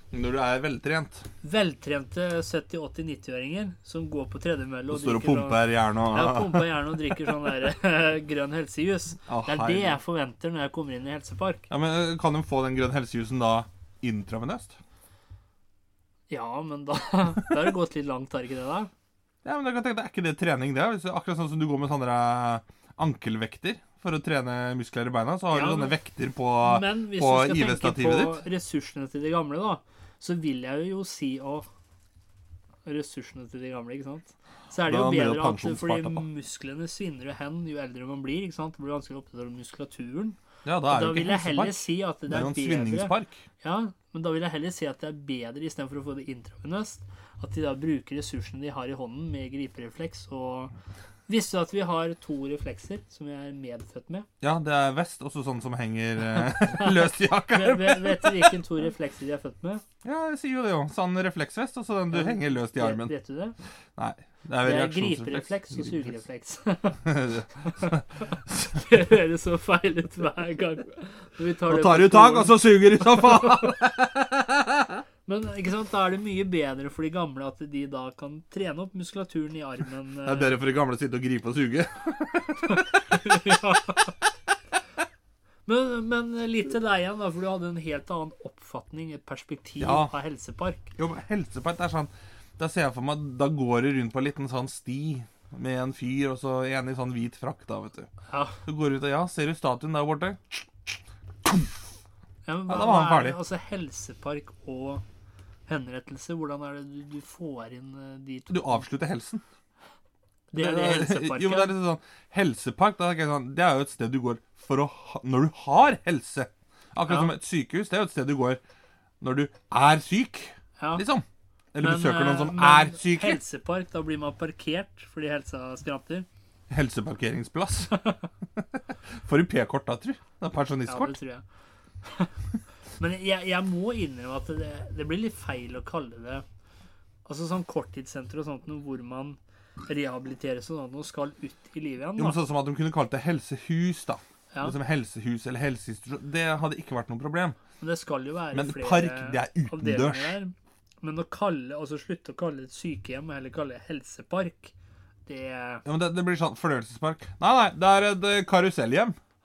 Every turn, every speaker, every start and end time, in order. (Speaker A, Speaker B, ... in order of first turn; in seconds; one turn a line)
Speaker A: 0.1-1.2
Speaker B: 1.4-11.7
Speaker A: 4.9-7.1
Speaker A: 9.3-10.0
Speaker A: 11.7-14.8
Speaker B: 16.3-18.9
Speaker A: 19.4-28.4
Speaker B: 25.5-25.9
Speaker B: 26.6-31.7
Speaker B: 32.9-40.4
Speaker A: 34.9-36.2
Speaker A: 40.6-43.4
Speaker B: 40.9-50.7
Speaker B: 51.3-54.3
Speaker A: 54.4-58.6
Speaker B: 56.7-59.8
Speaker A: 60.0-63.1
Speaker B: 62.1-63.6
Speaker A: 64.0-66.2
Speaker B: 64.6-67.0
Speaker A: 67.0-68.8
Speaker B: 68.8-73.7
Speaker A: 71.7-75.0
Speaker B: 75.3-80.5
Speaker A: 80.2-83.6
Speaker B: 82.7-84.1
Speaker B: 85.7-90.9
Speaker A: 89.8-90.1
Speaker A: 91.0-98.1
Speaker B: 98.3-98.6
Speaker A: 98.7-100.9
Speaker A: 101.5-101.8
Speaker B: 102.5-105.0
Speaker A: 102.7-103.4
Speaker B: 105.7-108.8
Speaker A: 108.5-109.4
Speaker B: 110.5-111.7
Speaker A: 110.6-118.6
Speaker A: 119.2-123.4
Speaker B: 120.8-121.0
Speaker B: 121.8-126.3
Speaker A: 126.7-128.0
Speaker A: 128.6-131.2
Speaker B: 130.9-131.4
Speaker B: 132.0-132.3
Speaker B: 133.0-136.4
Speaker B: 137.3-142.4
Speaker A: 142.2-147.6
Speaker B: 147.8-154.7
Speaker A: 148.5-150.4
Speaker B: 155.3-155.8
Speaker A: 155.8-159.2